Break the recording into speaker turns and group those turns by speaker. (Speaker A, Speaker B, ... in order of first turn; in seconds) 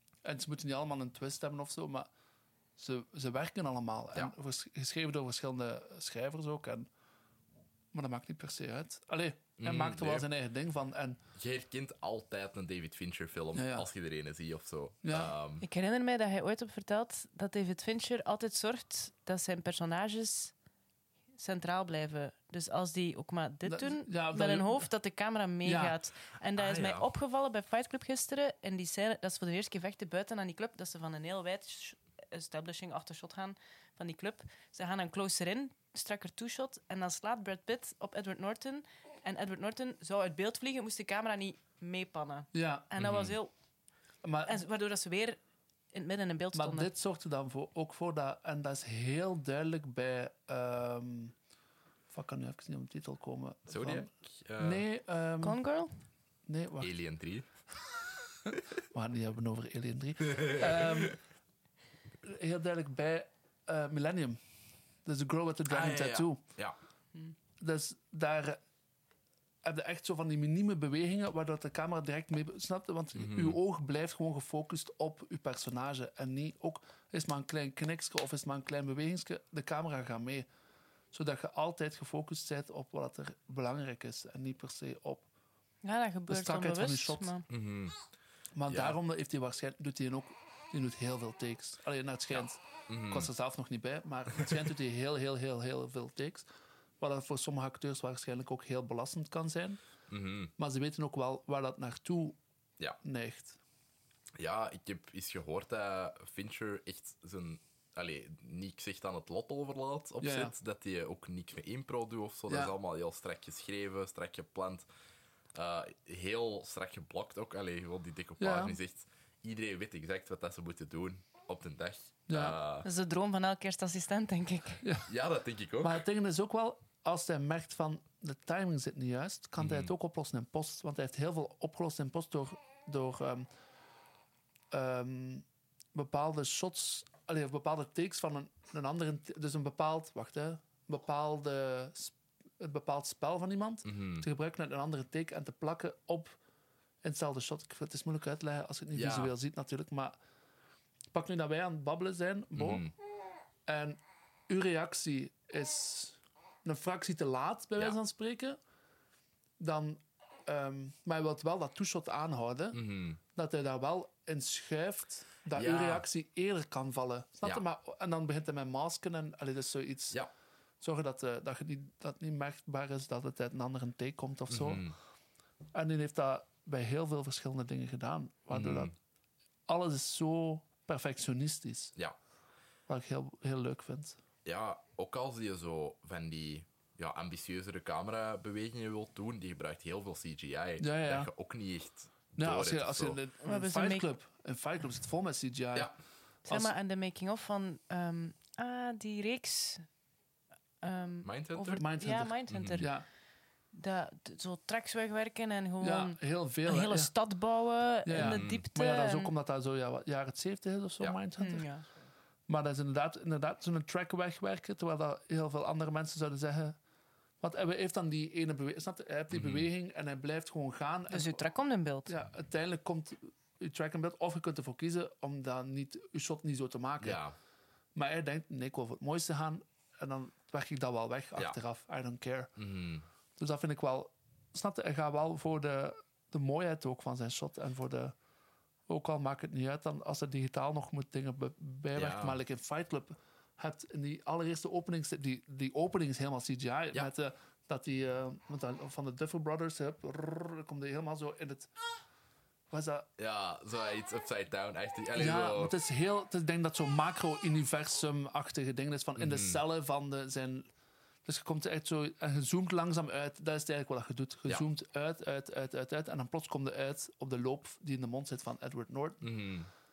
Speaker A: 0.2-2.1, 2.8-6.9, 7.9-11.2, 13.5-13.9, 15.0-15.3, 23.6-24.9, 25.6-25.9, 42.5-42.9, 44.2-44.6, 46.5-51.3, 52.1-55.6, 56.5-56.9, 58.9-61.2, 62.2-64.4, 65.0-66.4, 67.6-68.6, 69.6-80.5, 81.1-85.3, 86.3-87.3, 88.5-96.5, 97.0-99.8, 100.6-102.4, 103.0-103.6, 110.2-110.5, 112.5-112.7, 118.4-118.8, 122.3-122.6, 124.8-125.1, 125.8-133.5, 134.7-146.4, 147.0-150.1, 151.1-152.8, 153.7-158.6, 159.6-162.8, 163.3-170.2, 170.8-174.8, 175.7-178.9, 179.7-181.9, 182.9-184.2, 190.8-191.3, 192.4-195.9, 196.5-196.7, 201.8-203.1, 205.8-207.1, 208.0-211.7, 212.5-216.8, 217.4-221.4, 222.1-227.2, 227.9-232.5, 233.4-238.2, 238.9-251.7, 252.7-253.1, 255.1-260.7, 261.2-269.2
Speaker B: 9.6-10.3, 11.3-15.6, 26.6-27.1, 43.0-43.4, 53.7-54.8, 56.8-57.5, 60.3-61.1, 65.7-66.8, 73.2-73.6, 87.5-88.0, 88.7-89.0, 92.9-93.3, 100.1-100.5, 104.4-114.8, 115.5-122.8, 125.1-126.0, 129.6-129.9, 143.8-144.3, 148.9-149.3, 152.6-152.9, 162.7-163.2, 165.5-166.0, 174.5-174.9, 178.5-178.9, 184.4-193.2, 201.2-201.8, 202.5-202.9, 208.1-208.6, 219.3-219.7, 227.0-227.3, 232.6-233.1, 241.9-242.4, 253.2-255.7, 259.2-259.6, 269.2-269.7
Speaker C: 15.6-20.5, 21.4-43.5, 44.4-45.4, 45.9-46.9, 55.4-55.9, 85.8-87.5, 122.8-124.8, 193.4-194.1, 196.5-199.9, 200.8-202.9, 203.7-209.3, 211.4-211.9, 221.1-222.1